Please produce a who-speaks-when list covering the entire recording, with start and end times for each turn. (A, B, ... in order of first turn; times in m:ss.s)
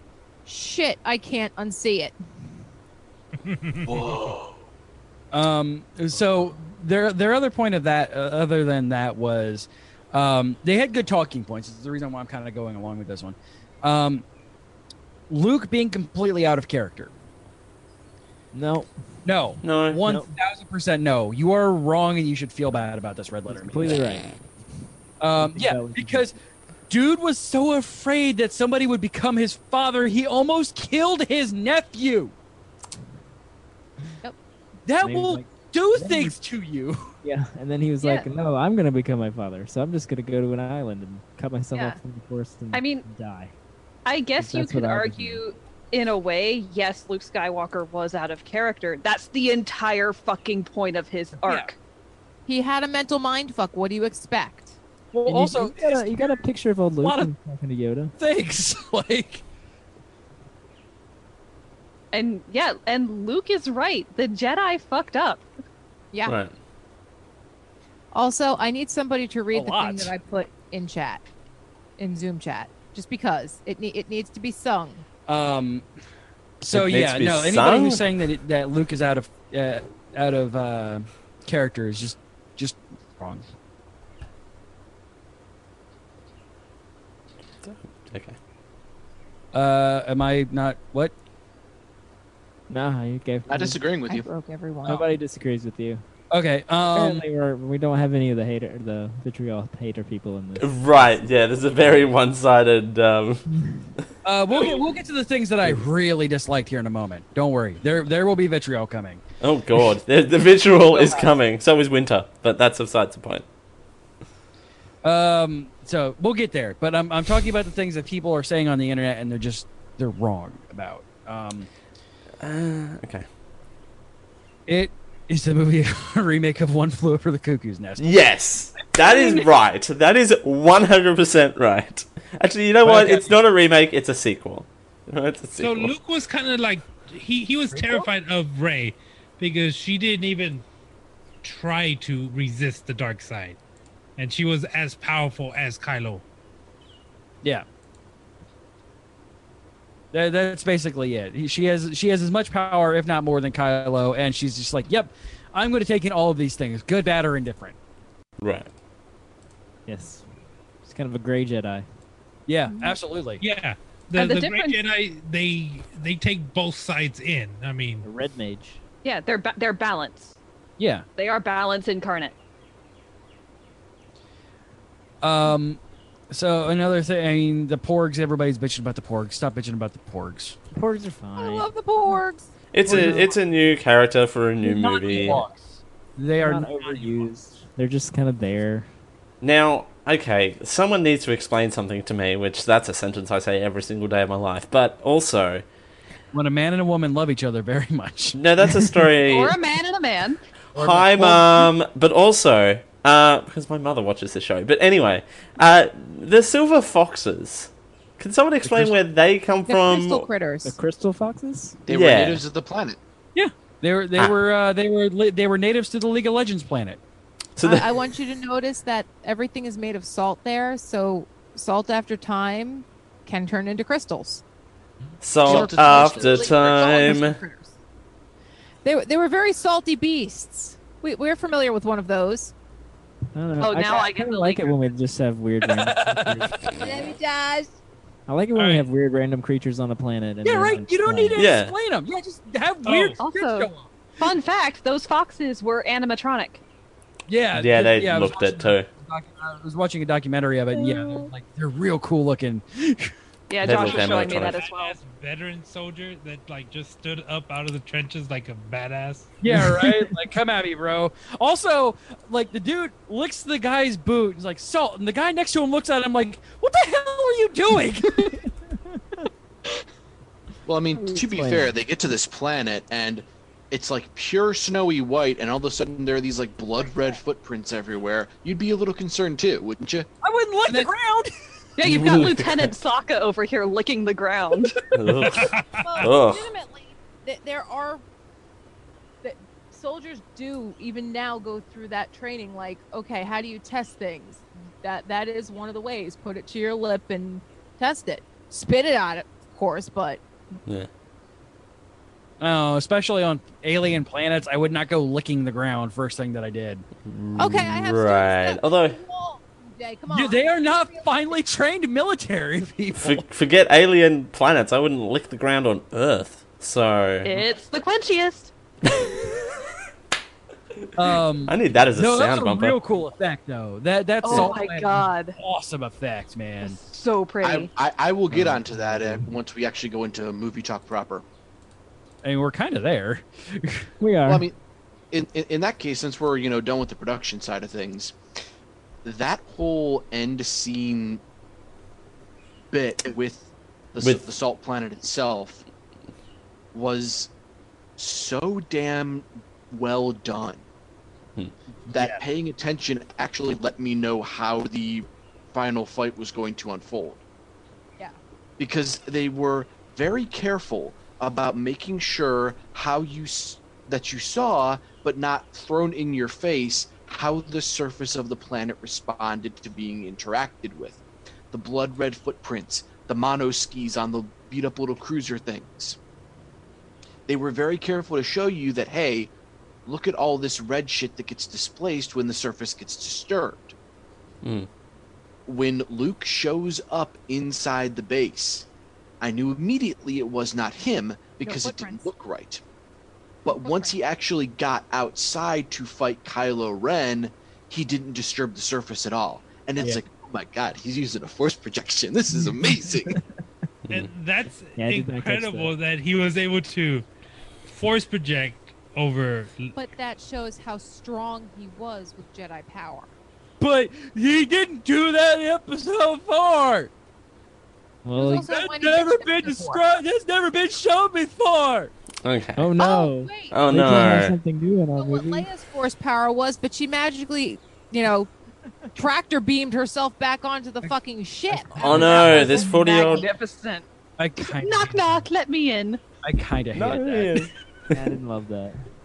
0:00.5-0:02.2 A
0:03.5-0:04.3 B
0:03.9-0:04.6 C
0:05.3-0:14.2 D
0:15.3-0:17.1 D
0:18.5-0:18.9 E
0:19.2-0:24.0 D
0:19.6-0:20.0 F
0:20.0-0:20.3 E
0:23.5-0:24.3 E
0:25.2-0:26.3 D
0:25.4-0:26.4 E
0:26.9-0:32.3 D
0:34.9-0:37.1 D
0:35.0-0:36.4 E
0:37.2-0:43.5 E
0:41.7-0:42.0 A
0:42.7-0:43.0 G
0:44.0-0:51.8 G
0:44.4-0:45.4 E
0:52.5-0:54.8 A
0:55.1-0:56.5 D
0:55.3-0:58.1 E
0:57.0-0:57.3 D
0:58.2-0:59.4 D
1:02.1-1:05.5 G
1:06.3-1:06.5 F
1:08.1-1:11.2 A
1:09.5-1:10.1 D
1:12.0-1:15.0 A
1:15.3-1:15.9 D
1:16.6-1:23.5 D
1:16.7-1:18.0 F
1:27.6-1:28.4 F
1:29.5-1:31.1 D
1:32.7-1:33.8 E
1:33.5-1:34.3 C
1:34.1-1:35.0 A
1:34.8-1:36.0 E
1:36.3-1:37.2 D
1:36.9-1:41.3 E
1:40.6-1:43.4 F
1:44.2-1:49.2 D
1:49.4-1:53.4 F
1:50.9-1:51.3 D
1:55.0-2:01.7 D
2:02.4-2:03.3 F
2:04.7-2:08.0 D
2:08.0-2:15.9 F
2:12.8-2:13.4 D
2:15.6-2:20.6 B
2:17.7-2:18.1 D
2:21.4-2:23.6 B
2:24.2-2:26.2 B
2:30.1-2:37.8 D
2:38.4-2:38.7 F
2:39.9-2:40.3 E
2:40.8-2:41.9 E
2:42.5-2:43.4 D
2:43.4-2:48.0 B
2:44.1-2:44.8 G
2:48.0-2:48.8 E
2:49.0-2:50.4 G
2:50.8-2:51.0 D
2:51.2-2:52.4 G
2:55.2-3:00.6 D
3:00.7-3:01.7 E
3:01.4-3:02.5 A
3:02.7-3:05.4 F
3:02.9-3:03.3 D
3:04.6-3:07.3 D
3:06.4-3:08.9 E
3:09.4-3:15.6 F
3:16.3-3:18.4 D
3:18.3-3:19.6 F
3:19.3-3:20.4 G
3:20.8-3:21.7 D
3:20.8-3:30.3 F
3:28.6-3:28.9 D
3:29.7-3:30.8 A
3:30.6-3:31.8 E
3:31.9-3:33.0 C
3:31.9-3:32.4 F
3:33.4-3:37.0 D
3:37.6-3:38.0 F
3:37.6-3:44.4 A
3:45.2-3:47.4 F
3:45.4-3:47.2 C
3:45.5-3:47.7 A
3:48.8-3:52.5 A
3:53.3-3:56.8 E
3:53.6-3:54.9 G
3:55.7-3:56.6 D
3:56.8-3:57.7 A
3:58.3-4:01.4 E
3:58.6-3:58.9 D
4:00.4-4:03.9 D
4:01.4-4:01.8 F
4:02.8-4:03.2 B
4:03.2-4:06.6 G
4:07.3-4:13.1 D
4:07.5-4:08.9 F
4:13.5-4:15.0 G
4:13.6-4:14.6 F
4:13.7-4:19.4 B
4:19.4-4:28.5 D
4:19.5-4:20.1 E
4:28.9-4:29.3 E
4:30.7-4:40.1 C
4:30.9-4:31.8 E
4:36.8-4:37.2 A
4:40.2-4:41.3 D
4:41.8-4:44.8 G
4:41.8-4:42.7 F
4:45.0-4:46.5 F
4:45.1-4:46.1 B
4:45.8-4:48.0 A
4:49.2-5:00.2 A
5:02.4-5:06.8 D
5:07.0-5:09.0 F
5:07.4-5:11.2 A
5:10.1-5:13.2 D
5:13.0-5:17.4 F
5:17.3-5:18.5 G
5:21.0-5:26.8 D
5:21.4-5:22.8 F
5:24.2-5:25.4 G
5:26.6-5:27.7 G
5:27.4-5:31.2 C
5:28.3-5:29.3 E
5:32.2-5:33.9 D
5:34.0-5:34.5 E
5:34.3-5:34.6 C
5:35.1-5:38.2 C
5:39.0-5:41.2 C
5:42.7-5:45.6 C
5:46.7-5:47.3 C
5:48.0-5:50.6 C
5:51.9-5:57.2 C
5:52.0-5:52.2 D
5:58.6-6:11.0 C
6:11.5-6:16.0 C
6:17.3-6:19.3 C
6:19.9-6:23.8 C
6:24.4-6:24.7 F
6:25.5-6:28.7 C
6:29.2-6:32.6 C
6:31.4-6:32.1 A
6:33.4-6:43.2 C
6:33.5-6:34.0 A
6:42.3-6:43.2 E
6:43.9-6:47.1 B
6:44.8-6:45.7 E
6:47.7-6:49.7 B
6:49.8-6:53.1 A
6:53.6-6:56.9 D
6:58.0-6:58.5 E
6:58.2-6:59.8 A
6:58.2-7:01.9 D
7:02.2-7:02.8 F
7:02.6-7:05.5 E
7:02.8-7:04.2 A
7:03.5-7:04.4 F
7:05.0-7:08.3 A
7:09.0-7:13.3 A
7:11.7-7:13.3 F
7:11.8-7:12.5 D
7:11.9-7:12.2 E
7:12.4-7:13.9 G
7:14.2-7:15.2 D
7:14.6-7:16.0 G
7:16.2-7:17.5 D
7:16.8-7:18.0 F
7:17.9-7:18.8 E